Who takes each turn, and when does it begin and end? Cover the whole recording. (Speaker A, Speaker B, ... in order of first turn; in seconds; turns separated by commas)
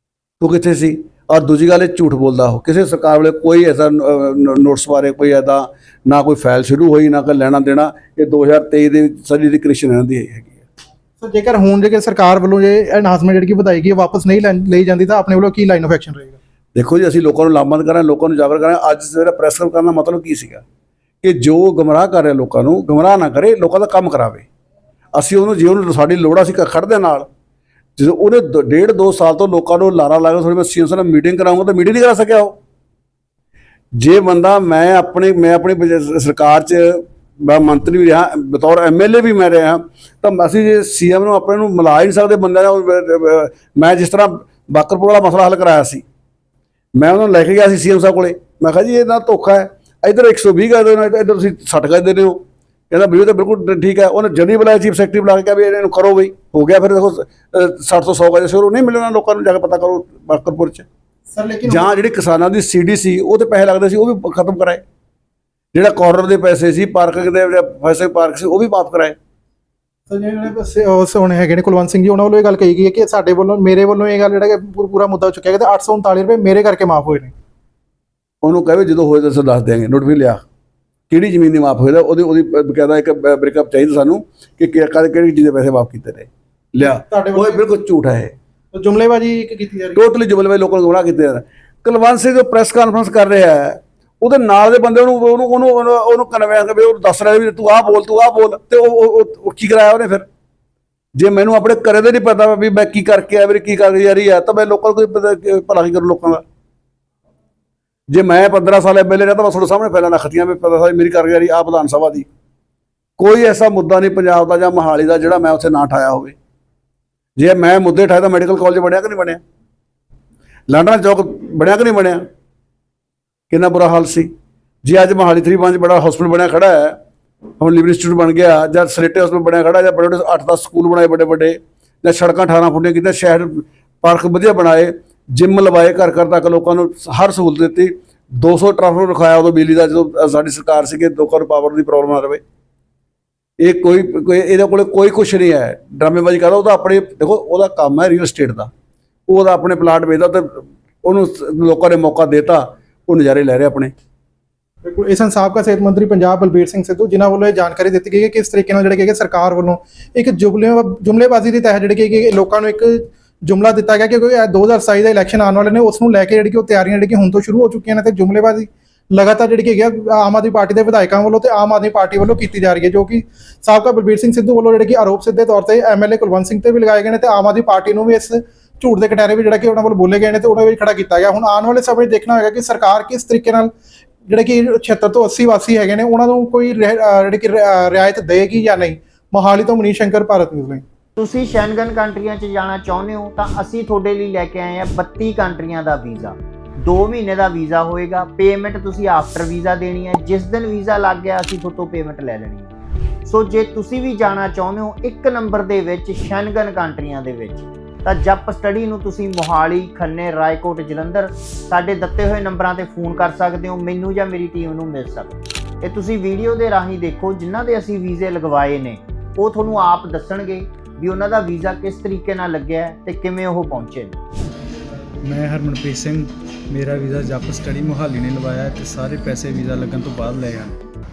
Speaker A: 0.4-10.6, Speaker B: 11.2-16.4, Speaker A: 16.8-20.6, Speaker A: 21.2-24.5, Speaker A: 25.1-27.3, Speaker A: 28.0-32.6, Speaker A: 34.0-46.0, Speaker A: 47.0-60.9, Speaker B: 61.3-61.9, Speaker A: 61.7-64.8, Speaker A: 65.7-69.2, Speaker B: 70.1-77.3, Speaker A: 78.4-80.4, Speaker A: 81.1-88.3, Speaker B: 86.9-87.7, Speaker B: 88.7-90.0, Speaker A: 90.0-100.3, Speaker A: 101.2-106.4, Speaker A: 108.1-112.3, Speaker A: 113.2-116.3, Speaker A: 117.4-119.4, Speaker A: 120.7-122.2, Speaker A: 123.5-124.3, Speaker A: 124.8-127.0, Speaker A: 127.6-142.4, Speaker A: 143.6-148.7, Speaker A: 149.3-153.9, Speaker B: 154.8-183.7, Speaker B: 184.3-190.8, Speaker C: 191.2-202.7, Speaker C: 203.2-224.2, Speaker D: 225.2-230.8